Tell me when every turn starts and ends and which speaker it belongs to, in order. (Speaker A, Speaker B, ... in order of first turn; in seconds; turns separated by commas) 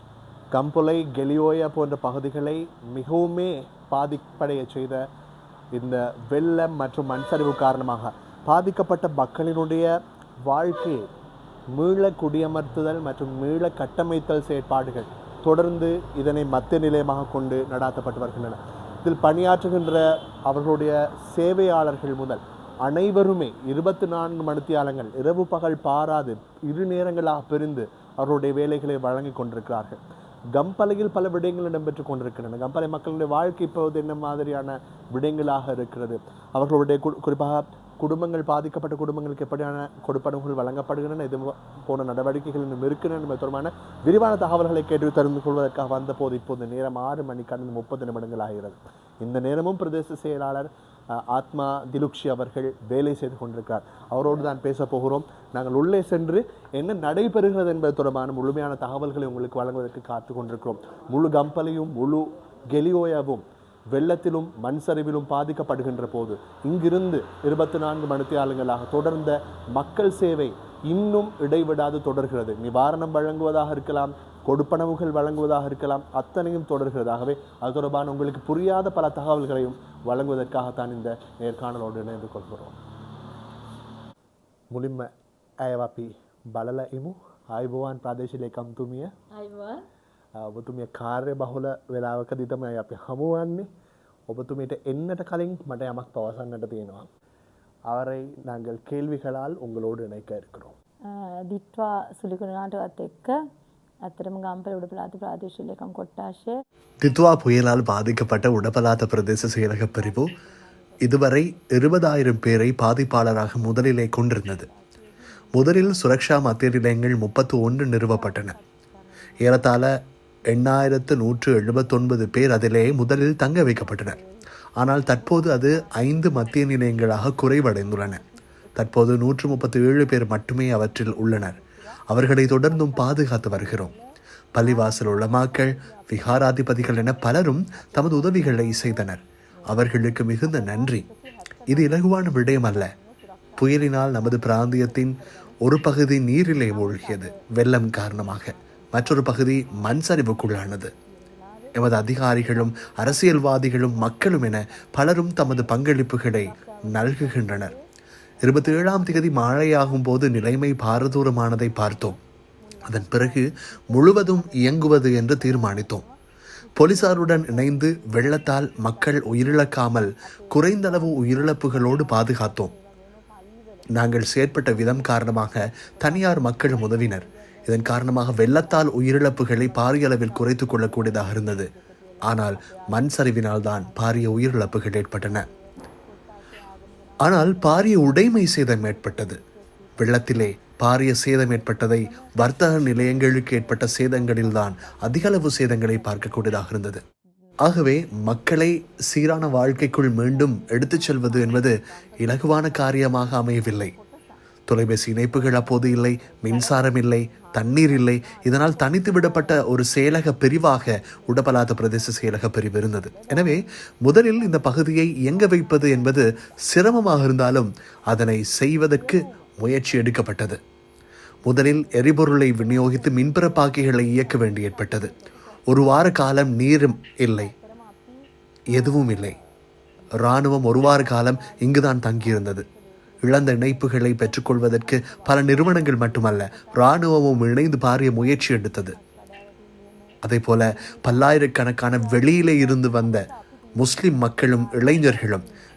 Speaker A: 0.5-5.0, Speaker A: 5.7-9.9, Speaker A: 10.4-11.1, Speaker A: 11.7-30.0, Speaker A: 30.5-82.7, Speaker A: 84.7-85.1, Speaker A: 85.6-89.1, Speaker B: 89.4-89.8, Speaker A: 90.4-93.7, Speaker A: 94.3-97.1, Speaker A: 97.9-100.7, Speaker B: 101.1-103.4, Speaker B: 104.1-106.5, Speaker C: 107.3-107.8, Speaker A: 107.7-108.2, Speaker C: 108.7-110.3, Speaker B: 109.4-111.8, Speaker A: 111.1-114.5, Speaker C: 111.2-114.6, Speaker B: 113.5-119.8, Speaker C: 115.5-118.5, Speaker A: 115.7-117.2, Speaker C: 119.4-119.8, Speaker C: 120.7-124.2, Speaker B: 121.8-122.1, Speaker B: 123.7-134.0, Speaker C: 124.9-128.2, Speaker A: 126.8-127.9, Speaker C: 128.8-131.5, Speaker A: 128.8-131.1, Speaker A: 132.1-132.4, Speaker C: 132.4-133.9, Speaker A: 133.0-133.6, Speaker B: 134.6-157.8, Speaker A: 134.6-135.5, Speaker C: 134.6-135.8, Speaker A: 136.1-137.4, Speaker C: 136.3-139.2, Speaker A: 138.2-138.8, Speaker A: 139.7-140.3, Speaker C: 139.7-141.0, Speaker C: 141.7-142.9, Speaker A: 141.9-142.3, Speaker A: 143.6-144.6, Speaker C: 143.8-145.1, Speaker C: 145.7-150.9, Speaker A: 145.8-146.5, Speaker A: 147.6-148.2, Speaker A: 148.9-150.7, Speaker C: 151.8-157.7, Speaker A: 151.8-152.2, Speaker A: 153.5-154.4, Speaker A: 155.1-156.2, Speaker B: 158.4-166.1, Speaker C: 158.5-162.2, Speaker A: 158.5-159.2, Speaker A: 160.9-161.9, Speaker C: 162.9-166.0, Speaker A: 165.2-165.8, Speaker B: 166.7-190.8, Speaker C: 166.8-172.7, Speaker A: 168.8-169.9, Speaker A: 170.8-172.4, Speaker A: 174.0-175.4, Speaker C: 174.2-177.2, Speaker A: 176.1-177.0, Speaker A: 177.7-178.3, Speaker C: 177.8-181.7, Speaker A: 179.3-179.7, Speaker C: 182.3-182.6, Speaker A: 182.4-183.4, Speaker C: 183.1-185.4, Speaker A: 184.8-185.0, Speaker C: 187.2-189.4, Speaker A: 190.0-191.2, Speaker C: 190.0-197.0, Speaker B: 191.4-196.7, Speaker A: 192.4-193.2, Speaker A: 193.7-194.5, Speaker A: 195.5-196.7, Speaker C: 197.8-201.8, Speaker B: 198.2-204.4, Speaker A: 199.2-199.6, Speaker C: 202.3-203.9, Speaker A: 203.1-203.5, Speaker A: 204.7-206.1, Speaker C: 204.8-213.6, Speaker B: 205.1-217.3, Speaker A: 206.6-207.0, Speaker A: 207.6-208.1, Speaker C: 214.1-217.7, Speaker A: 214.2-215.2, Speaker A: 217.2-217.5, Speaker A: 218.2-218.8, Speaker C: 218.3-219.2, Speaker B: 218.9-220.1, Speaker A: 219.7-220.4, Speaker C: 219.8-220.6, Speaker B: 221.4-229.4, Speaker A: 221.5-223.7, Speaker C: 221.5-225.1, Speaker A: 225.7-227.4, Speaker C: 225.9-227.2, Speaker C: 228.7-229.3, Speaker B: 230.2-245.5, Speaker A: 230.2-232.4, Speaker C: 230.5-232.6, Speaker A: 233.2-234.6, Speaker C: 233.4-238.9, Speaker A: 236.8-238.7, Speaker C: 240.2-243.3, Speaker A: 241.3-241.6, Speaker A: 243.8-244.3, Speaker C: 244.1-245.4